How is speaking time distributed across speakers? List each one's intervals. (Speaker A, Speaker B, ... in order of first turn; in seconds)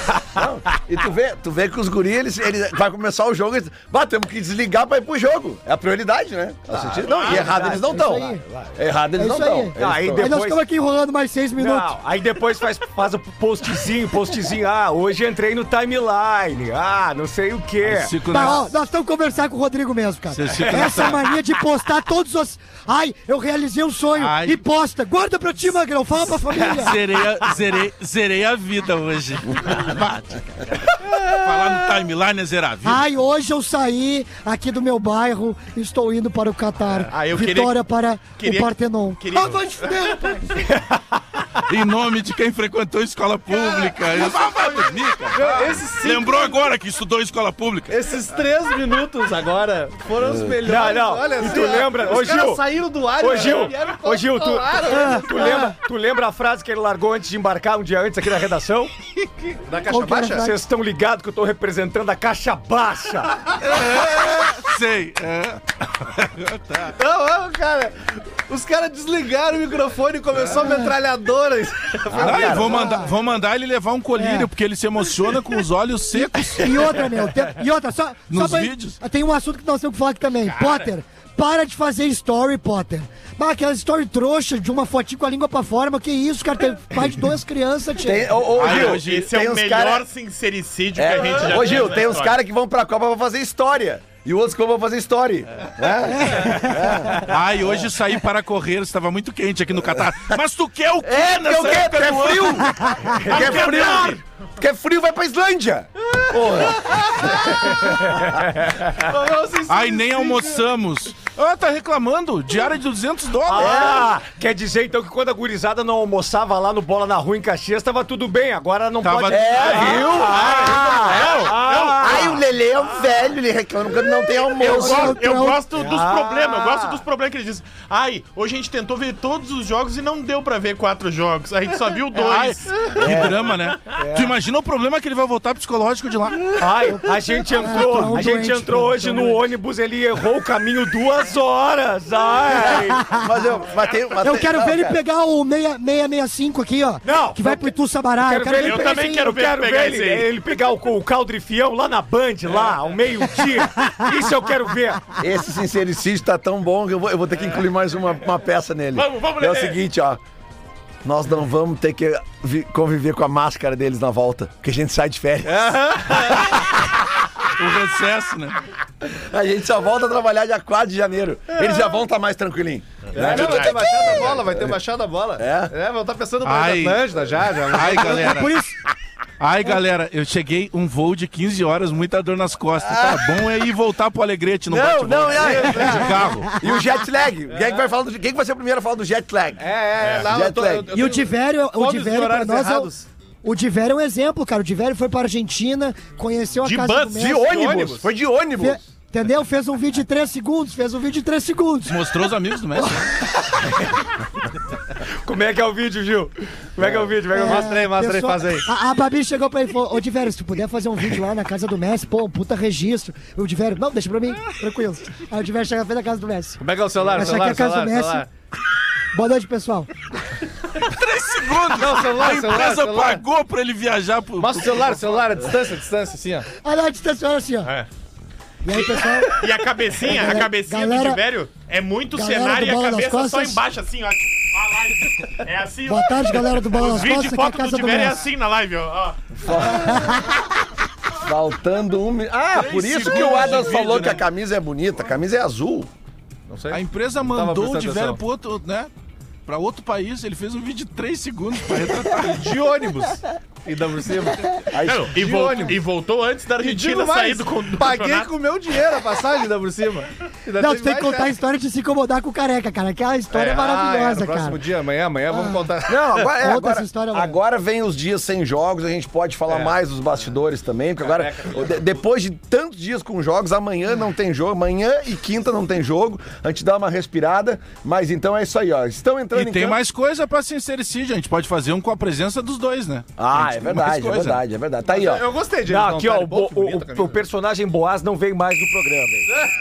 Speaker A: 0.3-10.3, 50.2-50.5, 72.1-72.9, 88.0-90.0, 91.0-97.2, 101.0-108.4, 113.5-114.1, 119.3-121.4, 122.0-125.2, 133.0-133.5, 143.1-145.0, 155.2-160.2, 161.0-166.7, 169.1-174.8, 175.4-175.7, 182.8-183.3, 184.7-189.7, 190.3-190.9, 197.2-198.8, 239.4-240.2, 241.2-245.9, 254.7-255.2, 265.9-279.8, 283.2-285.3
Speaker B: 6.7-8.7, 9.8-10.7, 11.6-18.5, 20.6-21.1, 50.6-58.9, 60.3-63.5, 113.5-122.4, 125.7-127.0, 134.0-134.4, 136.6-143.0, 147.0-155.0, 205.2-207.8, 285.7-289.4
Speaker C: 7.0-7.5, 37.1-40.4, 88.6-92.4, 103.2-104.2, 120.1-122.4, 124.6-133.0, 148.6-150.3, 159.0-159.8, 190.0-190.3, 196.6-198.0, 228.7-239.2, 254.8-258.3
Speaker D: 7.7-8.4, 9.2-11.9, 18.2-27.1, 32.8-40.6, 54.8-55.8, 59.9-60.6, 70.5-71.0, 72.6-73.2, 74.2-74.5, 76.1-88.5, 96.2-96.9, 102.8-103.1, 124.6-125.7, 136.9-139.5, 142.8-143.3, 144.2-149.0, 178.0-178.8, 185.7-186.7, 190.9-192.9, 193.4-197.6, 198.6-203.1, 207.3-218.3, 219.1-219.9, 226.6-227.8, 228.6-231.2, 232.1-233.6, 235.9-238.2, 239.6-240.4, 260.6-264.6, 265.3-265.7, 266.2-267.4
Speaker E: 17.8-18.8, 20.3-21.2, 24.2-24.6, 26.6-33.0, 41.7-48.0, 63.6-66.9, 72.2-77.0, 78.3-79.0, 88.6-89.3, 97.2-102.7, 109.7-114.0, 119.0-120.1, 132.1-136.9, 167.6-168.6, 176.4-177.1, 177.7-178.6, 179.4-186.5, 201.9-202.9, 220.8-224.9, 242.5-244.3, 246.7-248.9, 249.5-252.5, 279.3-284.4
Speaker F: 44.1-44.7, 45.3-46.6, 47.9-55.6, 59.6-60.5, 66.9-72.7, 106.2-107.7, 108.8-110.7, 165.4-166.5, 173.1-178.5, 185.3-186.3, 187.5-187.8, 189.6-193.1, 197.6-198.1, 206.9-208.7, 216.6-218.3, 221.7-223.2, 224.4-226.5, 246.5-248.2, 252.3-255.8, 256.6-261.3, 263.3-266.2, 269.5-269.8, 271.0-272.0, 284.8-287.2